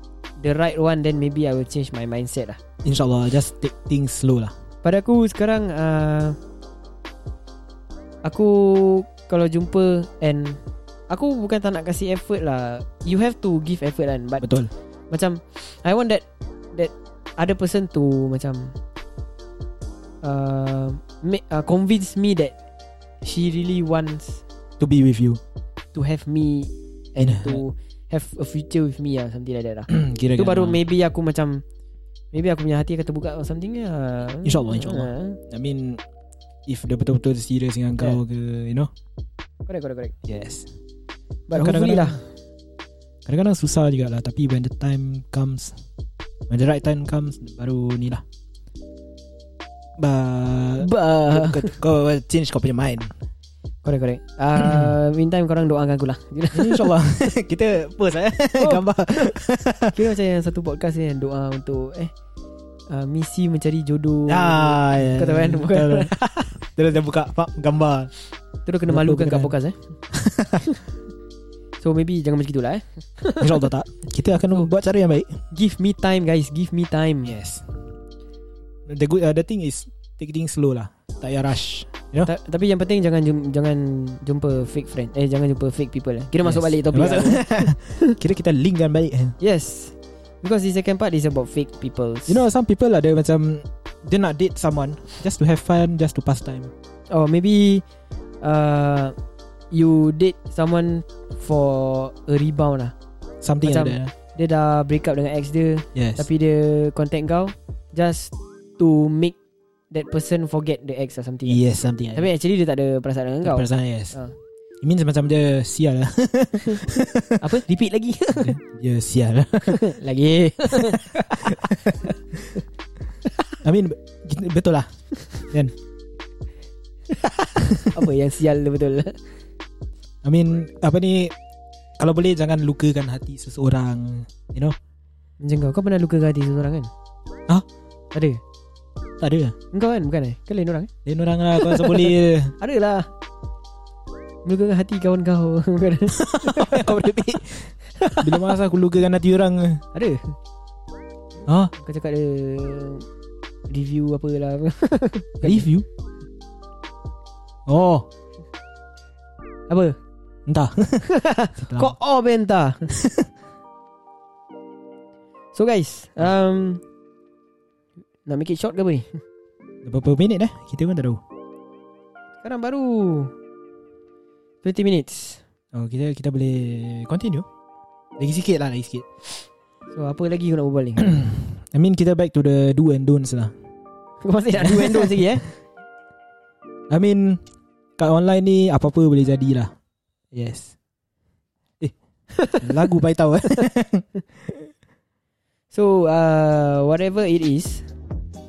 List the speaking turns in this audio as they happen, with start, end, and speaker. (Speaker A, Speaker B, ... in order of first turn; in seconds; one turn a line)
Speaker A: 0.4-2.6
Speaker B: 2.8-4.5
Speaker A: 4.8-6.4
Speaker A: 8.2-14.5
Speaker B: 14.4-14.7
Speaker A: 15.1-18.8
Speaker A: 20.2-22.6
Speaker A: 23.2-24.4
Speaker B: 24.8-25.4
Speaker A: 25.9-31.6
Speaker B: 27.2-27.6
Speaker B: 29.9-30.8
Speaker A: 32.3-35.4
Speaker B: 34.4-36.0
Speaker B: 36.7-38.9
Speaker A: 39.7-40.1
Speaker B: 40.3-40.7
Speaker A: 41.5-42.2
Speaker B: 41.5-42.2
Speaker B: 43.3-45.8
Speaker B: 46.5-48.2
Speaker B: 50.0-53.1
Speaker A: 50.8-51.8
Speaker A: 53.8-57.0
Speaker B: 54.6-54.9
Speaker B: 56.5-60.0
Speaker A: 58.6-59.3
Speaker A: 59.9-62.1
Speaker A: 62.9-66.5
Speaker B: 64.3-68.1
Speaker A: 68.7-69.8
Speaker B: 68.9-69.5
Speaker B: 70.1-70.7
Speaker A: 71.8-73.7
Speaker B: 73.4-75.4
Speaker A: 75.5-77.4
Speaker B: 77.2-77.7
Speaker B: 78.9-82.3
Speaker A: 82.2-88.2
Speaker B: 86.4-89.4
Speaker A: 89.4-92.4
Speaker B: 92.3-96.7
Speaker A: 97.1-97.8
Speaker A: 98.4-99.2
Speaker A: 99.7-102.9
Speaker B: 103.4-104.1
Speaker A: 103.6-109.4
Speaker B: 106.0-106.3
Speaker A: 109.9-111.6
Speaker B: 111.5-112.3
Speaker A: 112.1-114.3
Speaker B: 113.4-114.2
Speaker B: 114.8-117.5
Speaker A: 117.4-118.6
Speaker B: 118.4-120.0
Speaker A: 119.6-122.0
Speaker B: 120.6-122.0
Speaker B: 123.6-124.9
Speaker B: 125.5-125.7
Speaker A: 127.1-129.2
Speaker B: 130.2-131.3
Speaker B: 132.0-134.8
Speaker A: 135.4-136.9
Speaker A: 138.1-138.4
Speaker B: 139.2-139.6
Speaker A: 139.7-140.9
Speaker B: 141.1-142.6
Speaker A: 141.6-143.1
Speaker A: 144.4-147.0
Speaker B: 146.1-149.8
Speaker A: 147.9-148.6
Speaker A: 149.9-150.3
Speaker B: 151.5-151.7
Speaker A: 151.8-153.1
Speaker A: 153.7-155.7
Speaker B: 155.4-155.8
Speaker B: 157.7-158.1
Speaker A: 159.7-160.0
Speaker B: 160.5-161.1
Speaker A: 161.0-162.9
Speaker B: 161.6-161.9
Speaker B: 162.9-163.3
Speaker A: 165.5-166.8
Speaker A: 168.3-169.2
Speaker B: 169.8-171.2
Speaker A: 172.4-173.3
Speaker A: 174.6-175.4
Speaker B: 175.7-177.5
Speaker B: 178.2-179.1
Speaker A: 179.9-181.3
Speaker B: 181.0-183.5
Speaker A: 184.2-185.5
Speaker B: 184.6-185.4
Speaker B: 186.9-187.4
Speaker B: 188.0-189.7
Speaker B: 190.3-190.7
Speaker A: 192.3-192.7
Speaker B: 192.5-194.6
Speaker A: 195.7-197.9